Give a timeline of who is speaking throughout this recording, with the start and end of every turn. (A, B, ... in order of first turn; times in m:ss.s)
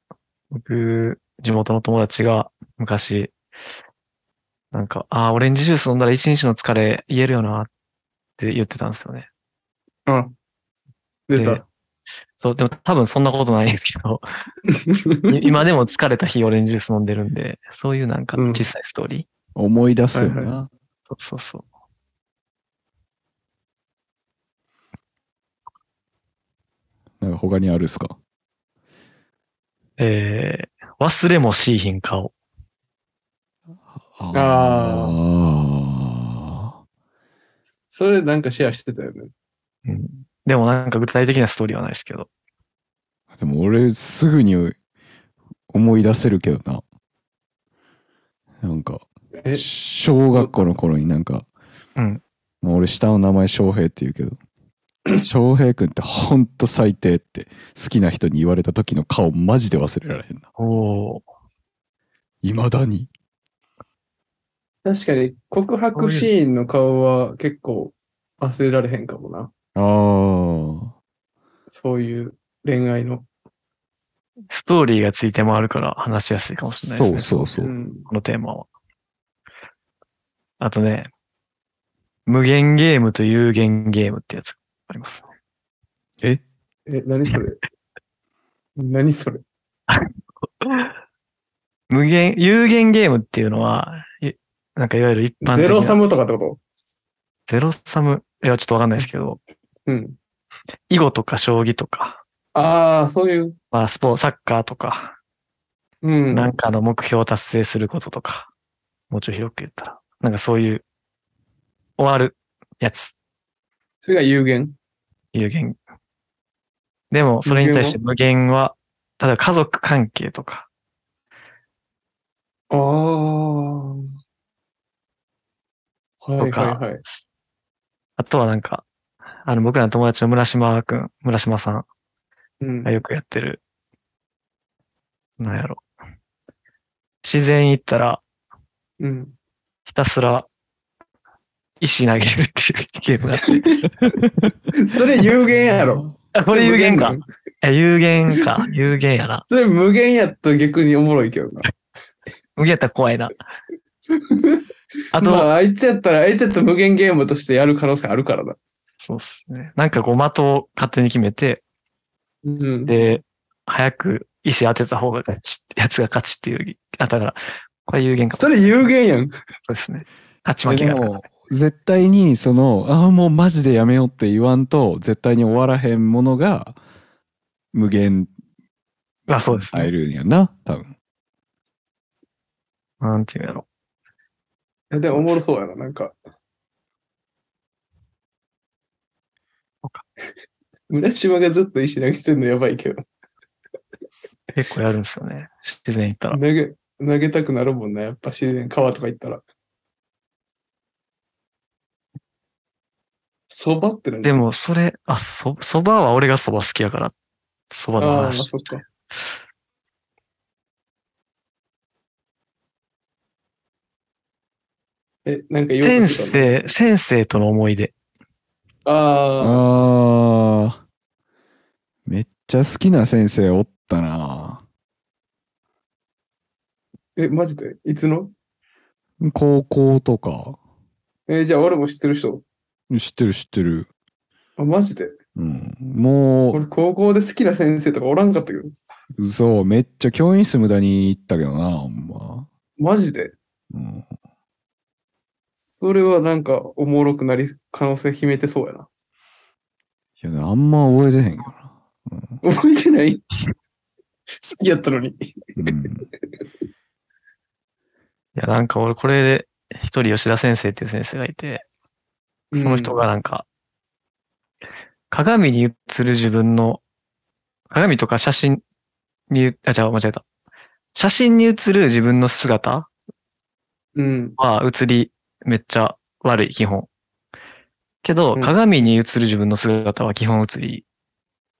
0:00.5-0:03.3 A
0:04.7-0:07.7 A
0:08.4-0:09.3 A
0:10.1-0:10.3 B
0:11.3-0:11.6 B
0:11.3-0:11.6 A
0:12.4-0:14.2 A
0:14.7-0:15.5 B
0:15.3-0:19.2 A
0:18.3-0:18.6 B
0:19.6-0:20.7 C
0:20.1-0:20.6 B
0:21.1-0:21.6 A
0:27.2-0:28.2 C
0:30.0-0:32.3 A
0:34.1-0:36.8 C
0:34.3-0:35.2 B
0:37.9-0:39.3 B
0:39.8-0:42.3 A
0:43.3-0:44.8 C
0:45.7-0:46.8 C
0:48.6-0:51.4 C
0:49.4-0:49.7 B
0:52.0-0:52.2 A
0:52.6-0:54.4 C
0:55.2-1:00.4 C
1:00.6-1:01.2 A
1:02.4-1:03.1 C
1:04.8-1:09.5 B
1:05.9-1:06.3 A
1:09.7-1:10.9 C
1:11.7-1:13.2 B
1:14.5-1:17.5 A
1:16.8-1:17.7 C
1:17.6-1:18.1 B
1:18.1-1:18.7 A
1:20.6-1:21.1 A
1:22.2-1:25.3 A
1:26.9-1:27.6 B
1:28.8-1:29.4 B
1:30.6-1:30.9 A
1:31.9-1:36.0 A
1:35.4-1:36.6 B
1:37.5-1:39.4 A
1:39.9-1:40.2 B
1:40.9-1:42.2 A
1:42.5-1:43.6 B
1:43.7-1:45.2 A
1:46.0-1:46.5 B
1:46.3-1:48.5 A
1:49.1-1:50.8 A
1:52.0-1:53.1 A
1:54.0-1:54.8 B
1:55.3-1:55.8 A
1:57.1-2:00.7 A
1:57.4-1:58.0 B
2:02.7-2:04.1 B
2:06.2-2:07.0 B
2:06.4-2:06.8 A
2:08.2-2:08.8 A
2:09.4-2:11.8 A
2:12.6-2:12.9 B
2:12.8-2:13.6 A
2:15.4-2:15.8 A
2:17.2-2:18.2 A
2:19.0-2:19.3 B
2:19.8-2:20.5 A
2:21.8-2:23.7 A
2:24.8-2:27.2 B
2:26.3-2:29.4 A
2:29.5-2:31.7 B
2:32.6-2:33.3 A
2:34.1-2:34.6 B
2:35.1-2:35.5 A
2:35.2-2:38.6 B
2:39.0-2:41.6 A
2:42.4-2:42.9 B
2:42.9-2:48.9 A
2:48.3-2:49.3 B
2:49.7-2:51.2 A
2:50.6-2:56.8 C
2:57.7-2:58.3 C
2:59.3-2:59.9 A
2:59.7-3:00.9 C
3:03.0-3:03.6 A
3:04.9-3:06.1 B
3:05.0-3:05.3 A
3:10.9-3:13.0 B
3:14.5-3:16.4 A
3:16.3-3:19.4 B
3:23.5-3:24.4 B
3:24.2-3:27.1 A
3:27.7-3:28.6 A
3:28.0-3:28.8 B
3:35.2-3:36.5 B
3:35.8-3:37.9 A
3:38.8-3:39.6 B
3:39.4-3:40.8 C
3:42.1-3:44.6 C
3:47.2-3:48.3 B
3:49.2-3:50.6 C
3:51.3-3:52.4 B
3:52.9-3:53.9 C
3:54.6-3:55.2 B
3:55.4-3:56.6 C
3:56.5-3:58.7 B
3:59.2-4:02.5 C
4:02.8-4:03.3 B
4:03.7-4:04.0 C
4:05.8-4:08.9 B
4:10.2-4:12.4 C
4:12.4-4:13.2 B
4:14.4-4:15.8 B
4:15.6-4:16.1 C
4:18.4-4:21.6 A
4:22.5-4:23.0 B
4:22.6-4:23.4 A
4:25.1-4:26.8 A
4:27.7-4:28.6 A
4:29.3-4:30.2 A
4:30.9-4:32.9 A
4:34.0-4:34.4 B
4:34.4-4:36.9 A
4:38.0-4:40.8 A